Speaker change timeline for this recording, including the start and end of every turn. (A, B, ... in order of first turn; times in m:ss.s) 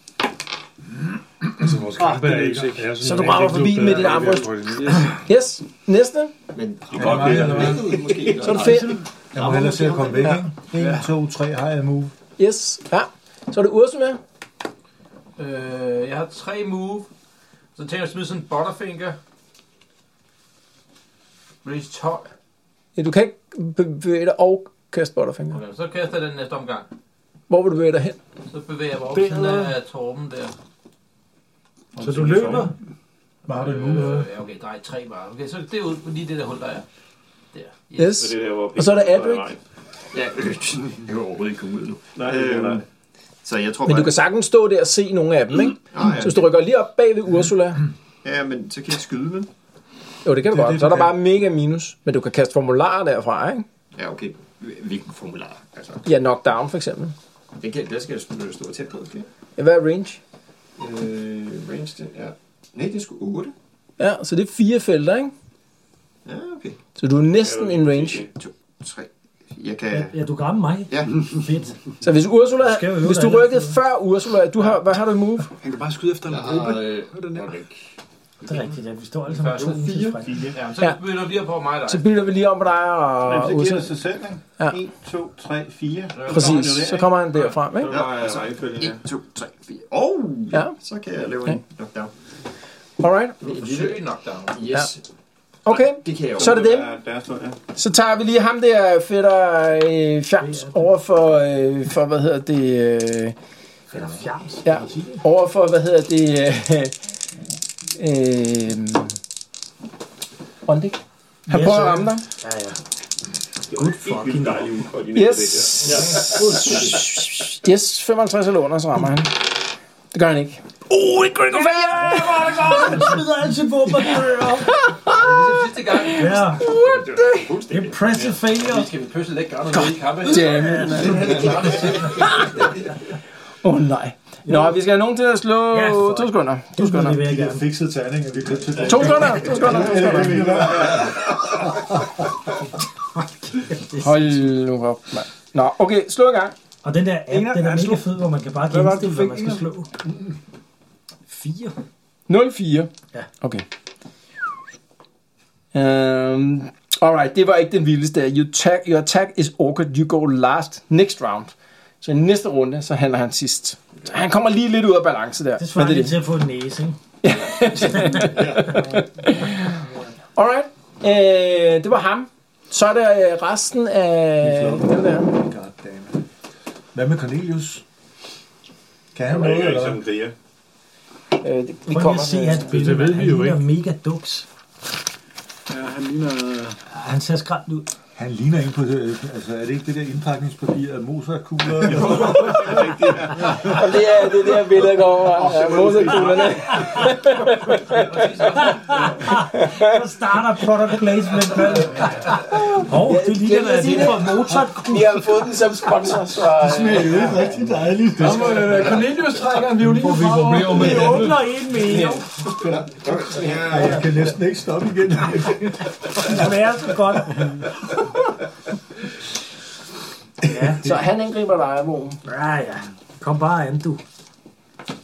0:01.6-0:05.1 A
0:01.9-0:03.0 B
0:03.0-0:06.3 C
0:04.7-0:05.2 B
0:06.5-0:10.4 D
0:06.9-0:08.3 E
0:07.0-0:08.0 F
0:08.4-0:09.0 C
0:08.5-0:09.0 B
0:09.3-0:12.1 F
0:10.7-0:11.1 B
0:12.4-0:14.2 C
0:15.4-0:17.1 G
0:17.8-0:19.2 G
0:21.6-0:22.3 G
0:23.0-0:25.6 C
0:25.5-0:26.9 G
0:27.5-0:28.2 C
0:28.5-0:30.5 G
0:29.2-0:29.5 H
0:32.0-0:32.7 F
0:32.0-0:32.7 H
0:32.2-0:32.6 E
0:33.5-0:34.3 F
0:33.5-0:36.8 G
0:37.5-0:38.1 G
0:38.0-0:39.5 C
0:38.1-0:39.6 E
0:40.1-0:42.8 D
0:42.1-0:42.8 E
0:43.4-0:44.1 D
0:43.8-0:47.8 C
0:45.9-0:46.5 D
0:48.2-0:49.5 D
0:50.2-0:53.6 C
0:50.5-0:51.1 F
0:54.0-0:56.1 D
0:56.0-0:57.1 C
0:57.6-0:59.3 D
0:59.6-1:00.2 C
1:00.8-1:03.5 D
1:04.0-1:05.3 C
1:06.2-1:06.8 D
1:07.0-1:08.2 C
1:07.4-1:08.3 E
1:08.3-1:10.1 D
1:09.9-1:11.8 H
1:10.9-1:11.2 D
1:12.0-1:15.5 C
1:12.6-1:13.8 H
1:15.6-1:17.6 B
1:16.3-1:17.6 D
1:18.4-1:20.3 H
1:19.3-1:19.7 G
1:19.5-1:20.5 D
1:20.2-1:20.6 E
1:20.5-1:22.0 G
1:21.9-1:23.9 C
1:23.2-1:27.1 E
1:26.1-1:26.8 G
1:26.3-1:27.9 C
1:27.7-1:29.0 E
1:27.9-1:32.1 D
1:30.5-1:30.8 C
1:33.0-1:33.4 C
1:33.4-1:35.0 D
1:33.4-1:34.6 G
1:35.6-1:36.9 C
1:35.9-1:36.6 D
1:36.3-1:37.6 E
1:37.7-1:43.4 C
1:40.4-1:40.9 H
1:43.9-1:45.2 H
1:44.6-1:46.9 C
1:48.0-1:49.2 C
1:50.6-1:52.2 C
1:51.5-1:52.8 H
1:53.7-1:56.3 E
1:53.7-1:54.8 H
1:55.1-2:03.2 C
2:01.9-2:04.8 H
2:04.8-2:07.5 C
2:05.1-2:06.8 G
2:06.1-2:06.7 H
2:07.3-2:08.4 E
2:07.7-2:08.9 H
2:08.5-2:12.5 G
2:09.7-2:12.7 C
2:10.5-2:12.1 H
2:13.6-2:17.2 C
2:14.5-2:14.7 H
2:15.7-2:17.6 H
2:17.1-2:21.2 F
2:18.8-2:20.6 C
2:19.4-2:21.2 E
2:23.5-2:24.3 H
2:24.0-2:26.5 C
2:26.8-2:29.9 H
2:27.3-2:29.7 B
2:31.3-2:31.7 H
2:32.3-2:33.6 C
2:35.7-2:46.2 C
2:45.6-2:47.0 H
2:47.2-2:49.8 C
2:47.8-2:48.4 H
2:48.4-2:48.7 D
2:50.4-2:55.4 C
2:54.4-2:56.2 F
2:56.9-2:57.8 F
2:59.1-3:00.0 F
2:59.2-3:00.3 E
3:01.4-3:02.7 C
3:01.9-3:04.5 H
3:02.6-3:03.6 A
3:05.7-3:06.8 B
3:06.9-3:07.9 H
3:08.1-3:12.6 F
3:11.7-3:13.8 E
3:13.5-3:20.0 C
3:15.3-3:17.0 E
3:17.9-3:18.8 G
3:18.6-3:25.2 H
3:22.3-3:27.5 C
3:26.5-3:29.2 F
3:28.2-3:31.3 B
3:29.7-3:31.4 A
3:30.2-3:31.1 F
3:30.6-3:32.4 H
3:31.8-3:32.2 C
3:32.6-3:34.3 D
3:33.4-3:36.2 F
3:36.1-3:37.7 H
3:40.4-3:40.8 H
3:40.8-3:42.2 C
3:42.2-3:44.0 H